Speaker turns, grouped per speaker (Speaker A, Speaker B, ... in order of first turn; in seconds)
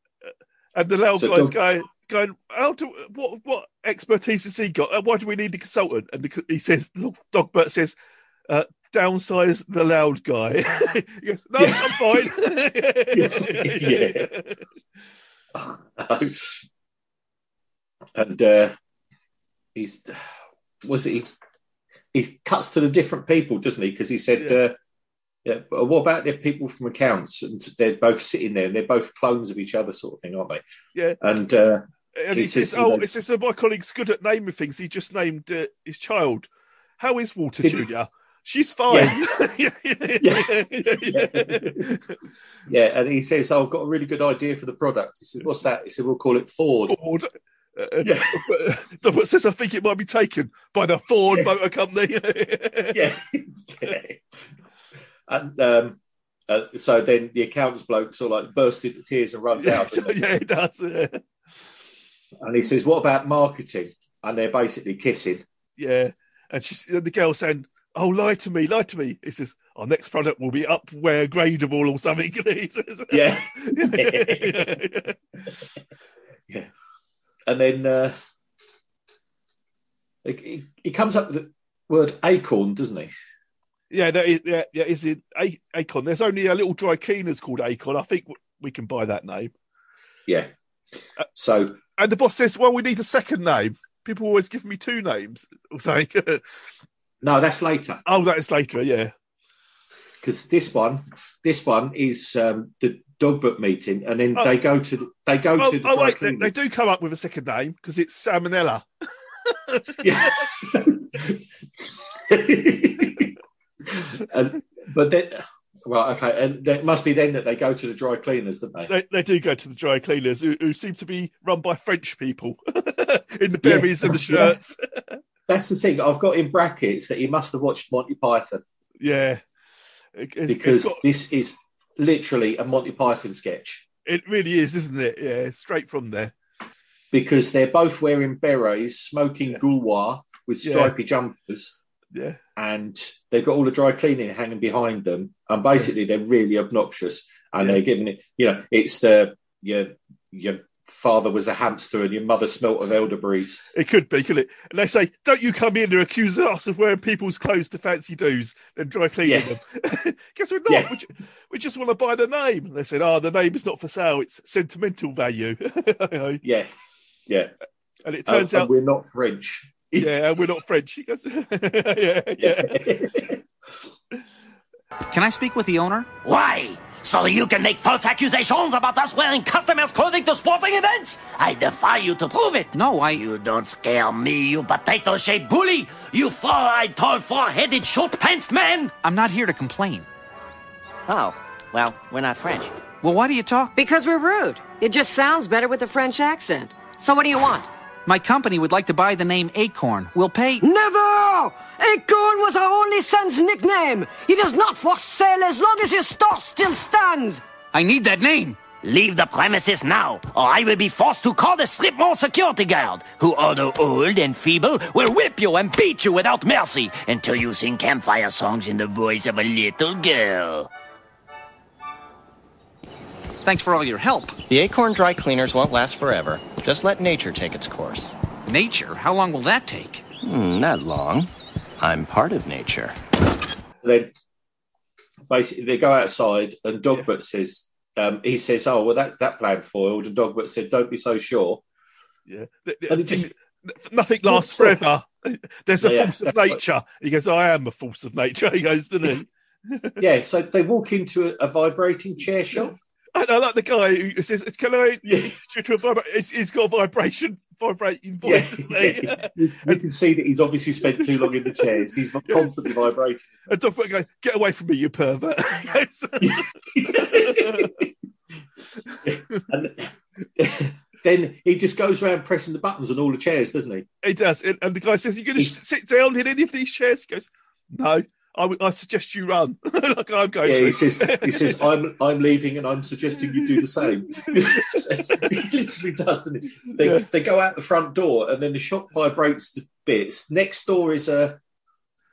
Speaker A: 0.7-7.9, 8.5-14.6, 32.2-42.1, 46.9-53.0, 59.5-61.9, 65.8-75.2, 83.9-89.5, 92.0-96.4, 98.0-99.1, 105.6-108.8, 109.5-110.4, 118.9-125.2, 129.0-129.4, 130.2-131.0, 134.1-136.3, 140.6-140.9, 142.1-142.4, 153.7-166.4, 168.0-168.7, 170.0-172.9, 242.3-250.0, 253.1-259.8, 261.0-262.7, 263.5-267.7, 268.9-269.4, 274.0-281.7, 283.2-285.3, 286.8-287.1
Speaker B: 1.2-1.6, 11.6-12.3, 13.1-14.3, 15.5-16.6, 18.1-18.7, 19.7-20.2, 20.8-21.3, 22.1-24.7, 25.4-30.6, 31.2-31.8, 32.3-33.0, 37.6-37.9, 38.9-39.2, 40.2-41.9, 42.7-47.0, 48.0-48.5, 52.9-54.2, 55.3-56.0, 56.5-60.3, 62.4-65.4, 73.1-74.7, 77.5-78.1, 80.2-83.1, 91.3-91.8, 97.2-98.0, 100.2-106.5, 110.0-111.4, 112.3-113.3, 113.9-118.9, 123.6-124.6, 125.5-128.6, 130.5-133.8, 137.1-141.8, 142.6-153.7, 159.2-159.5, 166.4-166.7, 168.3-170.1, 172.4-173.4, 233.8-234.1, 235.3-241.6, 242.9-243.3, 244.2-244.8, 245.8-246.6, 250.0-252.8, 255.0-255.3, 258.2-263.3, 266.2-267.9, 269.0-273.9, 280.4-291.4
Speaker C: 175.1-176.1, 182.7-183.2, 189.0-190.1, 193.0-193.7, 198.1-200.6, 207.7-208.7, 223.4-224.4, 228.5-230.0
Speaker D: 176.2-188.9, 208.7-220.7
Speaker E: 191.1-192.7, 224.5-228.1, 230.2-232.9
Speaker F: 193.8-197.7, 200.6-207.4